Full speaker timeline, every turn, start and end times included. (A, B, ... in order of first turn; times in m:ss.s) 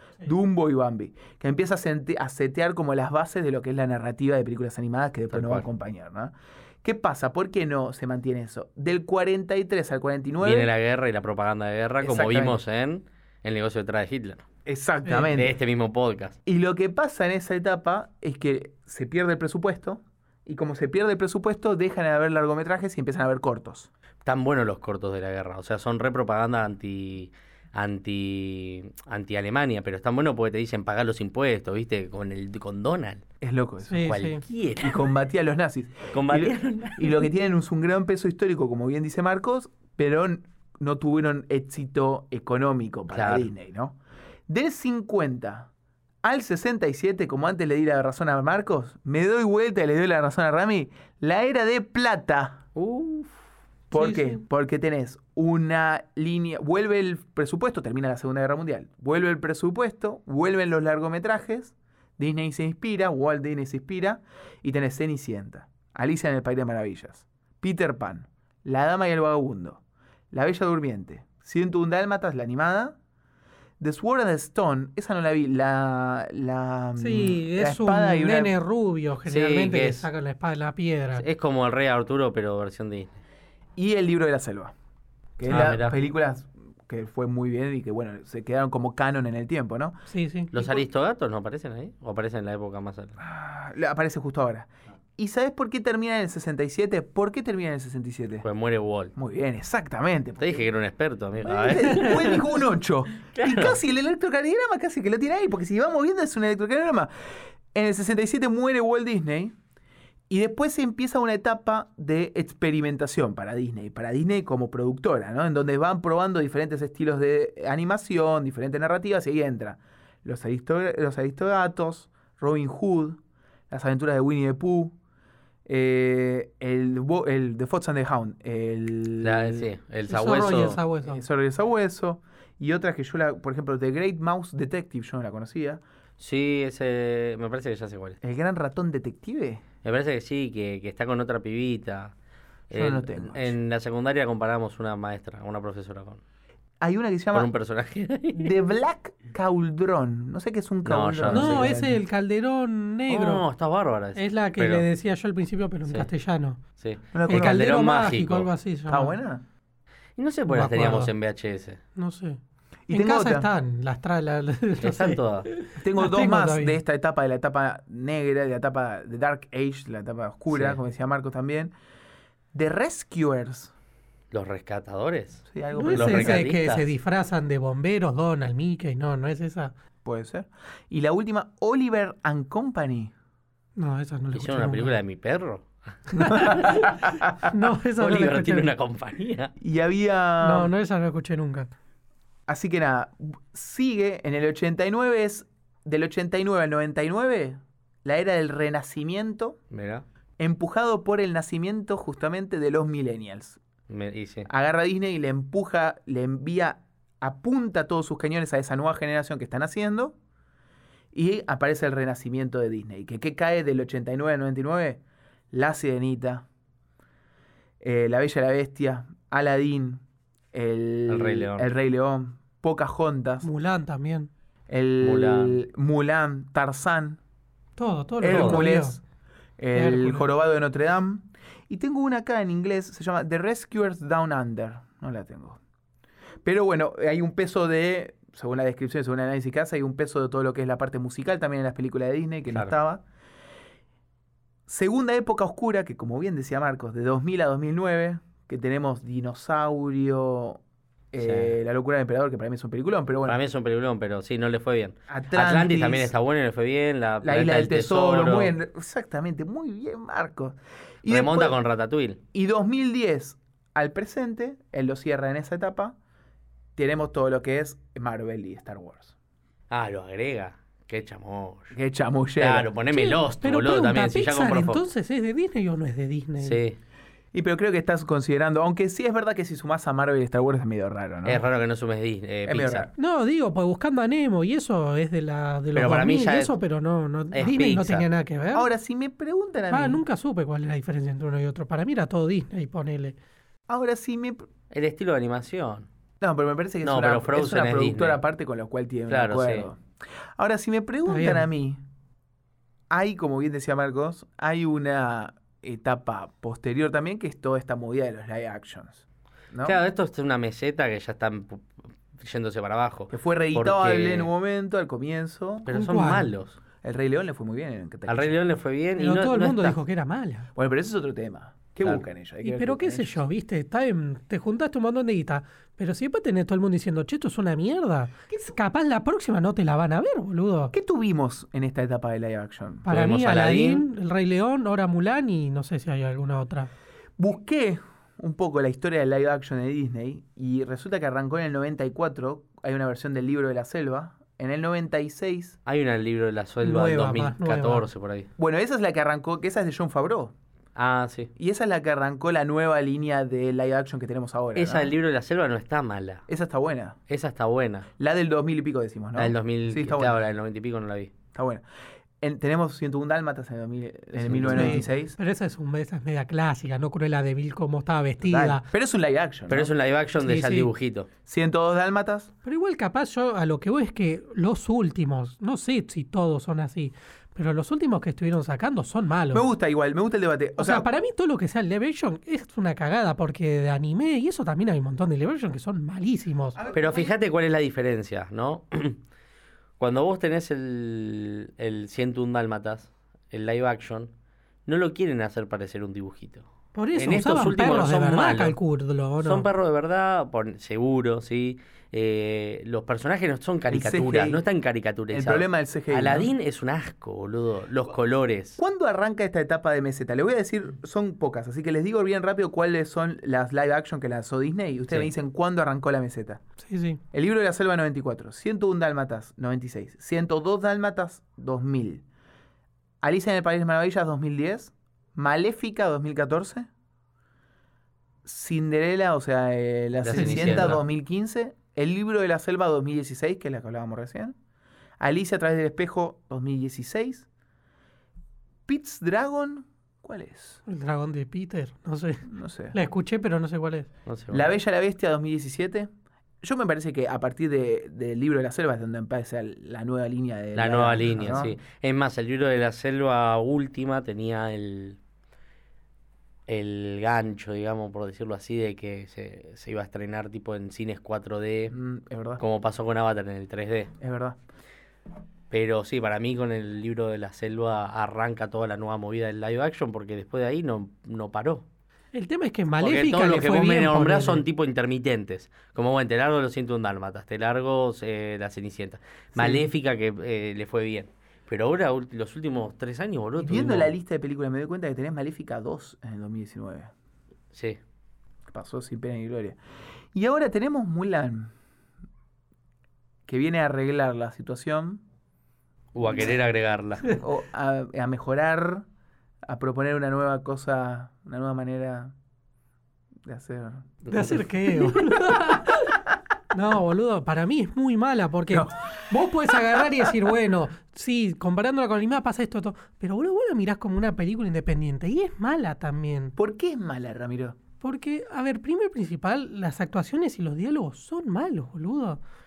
0:00.2-0:10.7 A
0:05.3-0:05.6 B
0:10.4-0:14.4 B
0:12.0-0:12.6 A
0:14.6-0:15.5 A
0:15.2-0:16.4 B
0:16.4-0:23.9 A
0:24.2-0:33.2 B
0:33.4-0:34.1 A
0:33.9-0:34.4 C
0:34.0-0:35.0 B
0:34.8-0:45.7 A
0:36.1-0:37.3 B
0:43.1-0:43.5 B
0:46.2-0:52.6 A
0:52.8-0:53.4 B
0:53.9-1:09.8 A
0:53.9-0:54.4 C
1:10.3-1:13.0 A
1:13.8-1:18.5 A
1:17.0-1:21.2 C
1:19.2-1:20.1 B
1:21.1-1:23.2 B
1:23.8-1:24.7 A
1:25.4-1:30.0 A
1:25.4-1:26.0 B
1:30.1-1:30.5 C
1:30.5-1:33.2 B
1:30.5-1:30.8 A
1:33.2-1:38.4 A
1:38.4-1:39.1 B
1:39.1-1:40.6 A
1:40.4-1:42.4 B
1:41.4-1:47.1 A
1:43.3-1:43.8 B
1:47.7-1:49.5 A
1:50.3-2:05.0 A
2:05.6-2:09.7 A
2:09.2-2:10.8 B
2:10.1-2:11.2 C
2:11.0-2:15.8 A
2:16.2-2:18.2 B
2:18.2-2:19.6 A
2:19.8-2:22.1 B
2:22.7-2:26.2 B
2:22.7-2:23.6 A
2:26.8-2:27.5 A
2:27.3-2:28.5 B
2:28.3-2:32.0 A
2:30.8-2:31.7 B
2:31.3-2:33.4 C
2:33.1-2:34.9 B
2:34.2-2:36.6 C
2:36.8-2:38.5 B
2:37.1-2:37.6 A
2:37.3-2:39.1 C
2:38.9-2:39.4 A
2:40.2-2:41.8 B
2:40.5-2:41.1 C
2:42.0-2:42.4 C
2:42.9-2:43.5 A
2:42.9-2:46.8 C
2:44.8-2:45.5 B
2:45.8-2:51.7 A
2:50.5-2:50.8 B
2:52.5-2:53.7 A
2:54.3-2:56.9 B
2:55.5-2:56.4 A
2:55.7-2:59.7 C
3:00.0-3:03.1 A
3:03.8-3:04.9 C
3:04.3-3:07.0 B
3:06.1-3:08.7 C
3:06.3-3:07.3 A
3:08.0-3:09.5 B
3:09.6-3:10.7 A
3:10.4-3:11.7 C
3:12.5-3:19.6 A
3:19.7-3:20.0 B
3:20.4-3:23.6 A
3:23.9-3:24.5 B
3:24.5-3:30.2 A
3:31.1-3:35.0 A
3:35.5-3:36.4 A
3:37.8-3:43.5 A
3:41.1-3:41.7 B
3:43.4-3:44.3 C
3:44.7-3:47.2 A
3:45.0-3:45.6 B
3:47.8-3:49.0 C
3:48.2-3:49.0 A
3:48.3-3:48.6 B
3:49.6-3:55.6 A
3:49.7-3:50.2 C
3:56.4-4:03.0 A
4:04.7-4:10.6 A
4:11.1-4:13.4 A
4:11.2-4:11.6 B
4:13.2-4:18.5 B
4:15.1-4:16.1 A
4:17.2-4:21.6 A
4:21.1-4:22.2 B
4:22.3-4:26.0 A
4:26.8-4:29.1 A
4:29.7-4:31.7 B
4:31.7-4:32.7 A
4:32.4-4:34.8 B
4:32.9-4:36.6 C
4:36.4-4:36.8 B
4:37.3-4:41.4 A
4:41.2-4:42.9 B
4:42.4-4:42.9 A
4:43.0-4:48.7 C
4:45.7-4:46.5 B
4:47.3-4:48.1 B
4:48.5-4:50.0 A
4:49.7-4:53.2 C
4:53.7-4:54.5 A
4:54.7-4:55.9 B
4:56.2-4:59.8 A
4:56.8-4:58.2 B
4:59.1-4:59.7 B
5:00.4-5:01.8 A
5:01.0-5:01.5 C
5:02.9-5:09.8 A
5:09.6-5:14.3 B
5:13.1-5:15.7 A
5:15.6-5:16.6 B
5:15.7-5:16.3 C
5:16.8-5:18.4 A
5:18.1-5:19.8 B
5:19.0-5:20.5 C
5:20.5-5:23.2 A
5:22.4-5:30.7 C
5:28.3-5:28.6 A
5:30.7-5:32.9 A
5:32.8-5:36.7 C
5:32.9-5:33.8 B
5:37.2-5:45.6 A
5:45.6-5:48.3 B
5:46.6-5:47.8 C
5:48.4-5:50.3 A
5:50.8-5:51.3 B
5:51.4-5:54.9 A
5:54.5-5:56.2 B
5:56.3-5:57.0 A
5:57.1-5:57.9 B
5:58.0-6:00.2 A
5:59.2-6:01.1 B
6:01.3-6:01.6 A
6:02.2-6:05.2 A
6:04.1-6:04.9 B
6:04.5-6:08.6 C
6:08.2-6:09.7 A
6:09.5-6:11.1 B
6:10.2-6:10.7 C
6:11.2-6:12.3 A
6:12.4-6:19.4 C
6:19.3-6:20.9 A
6:20.6-6:26.6 C
6:26.5-6:27.1 A
6:26.7-6:29.0 B
6:29.8-6:34.1 B
6:34.6-6:38.6 B
6:36.7-6:39.5 C
6:39.2-6:48.6 B
6:43.7-6:44.4 A
6:45.1-6:46.3 A
6:48.6-6:56.4 A
6:56.6-6:57.0 C
6:57.1-7:02.0 A
7:03.0-7:06.7 A
7:08.2-7:14.3 A
7:10.0-7:10.8 B
7:10.2-7:10.8 C
7:15.0-7:17.3 A
7:18.7-7:20.6 A
7:20.6-7:23.9 C
7:22.2-7:22.8 A
7:24.0-7:24.5 B
7:24.3-7:25.9 A
7:26.4-7:31.5 A
7:30.5-7:35.0 B
7:36.5-7:41.7 B
7:41.7-7:42.4 A
7:42.4-7:43.9 B
7:44.0-7:44.4 A
7:45.5-7:51.6 B
7:52.1-7:54.4 C
7:52.8-8:03.9 B
7:59.3-7:59.7 A
8:03.4-8:06.9 A
8:07.5-8:07.8 B
8:08.5-8:09.6 A
8:10.1-8:11.5 A
8:13.3-8:15.0 A
8:15.9-8:17.2 B
8:16.0-8:16.4 A
8:17.1-8:18.8 A
8:19.5-8:22.1 A
8:23.2-8:24.0 A
8:24.1-8:24.4 B
8:24.1-8:36.3 C
8:29.5-8:30.1 A
8:36.4-8:37.6 A
8:37.8-8:42.2 C